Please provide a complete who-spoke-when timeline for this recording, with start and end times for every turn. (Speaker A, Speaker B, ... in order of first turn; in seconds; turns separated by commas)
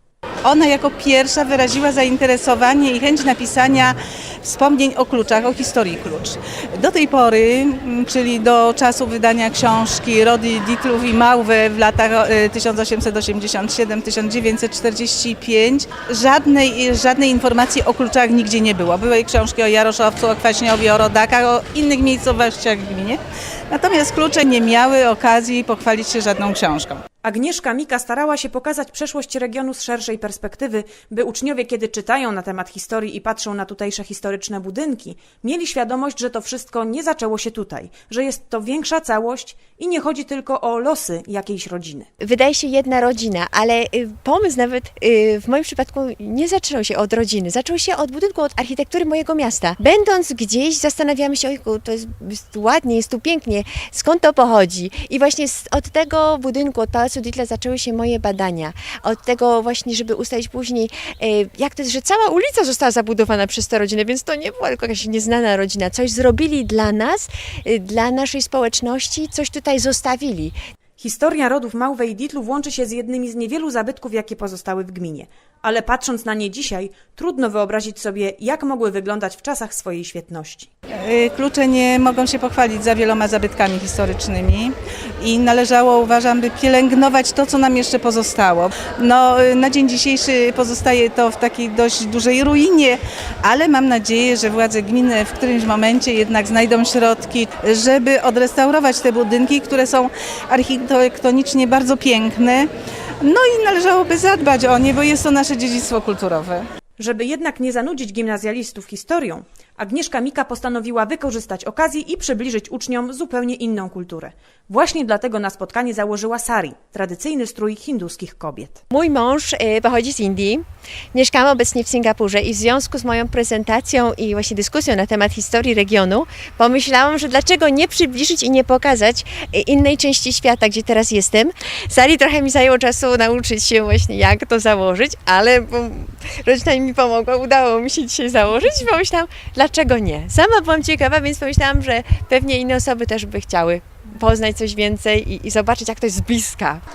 Speaker A: 0.4-23.2, Speaker A: 23.7-27.0, Speaker B: 27.2-42.1, Speaker C: 42.2-70.5, Speaker B: 71.0-80.7, Speaker A: 81.0-102.7, Speaker A: 103.2-106.7, Speaker B: 107.0-118.8, Speaker C: 118.9-146.8